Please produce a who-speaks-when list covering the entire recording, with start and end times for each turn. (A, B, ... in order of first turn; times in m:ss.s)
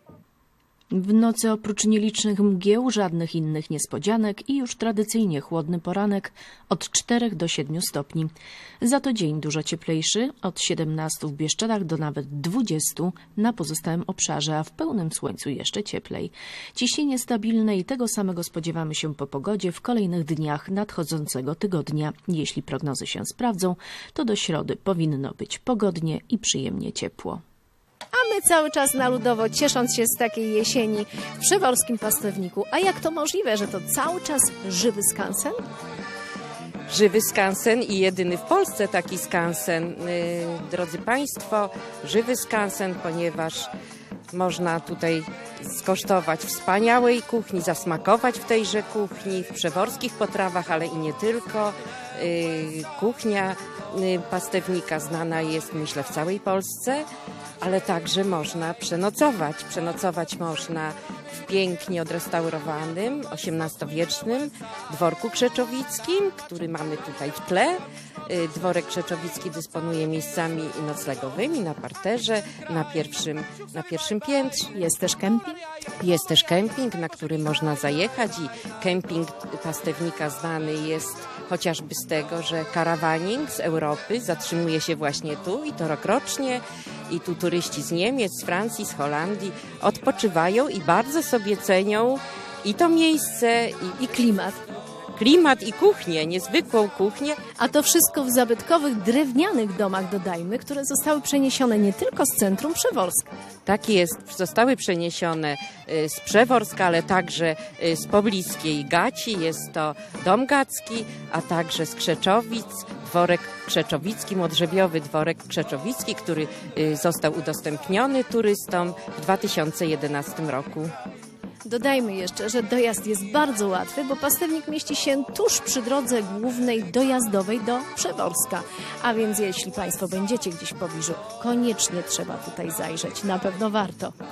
0:00.9-0:27.4 A
0:28.1-0:35.6 B
0:36.9-0:43.7 C
0:44.3-0:57.0 C
0:57.6-1:14.7 C
1:14.7-1:15.6 B
1:16.0-1:34.0 C
1:34.0-1:34.6 B
1:35.1-1:37.4 C
1:37.6-1:43.3 B
1:43.6-2:00.9 C
2:01.6-2:14.1 B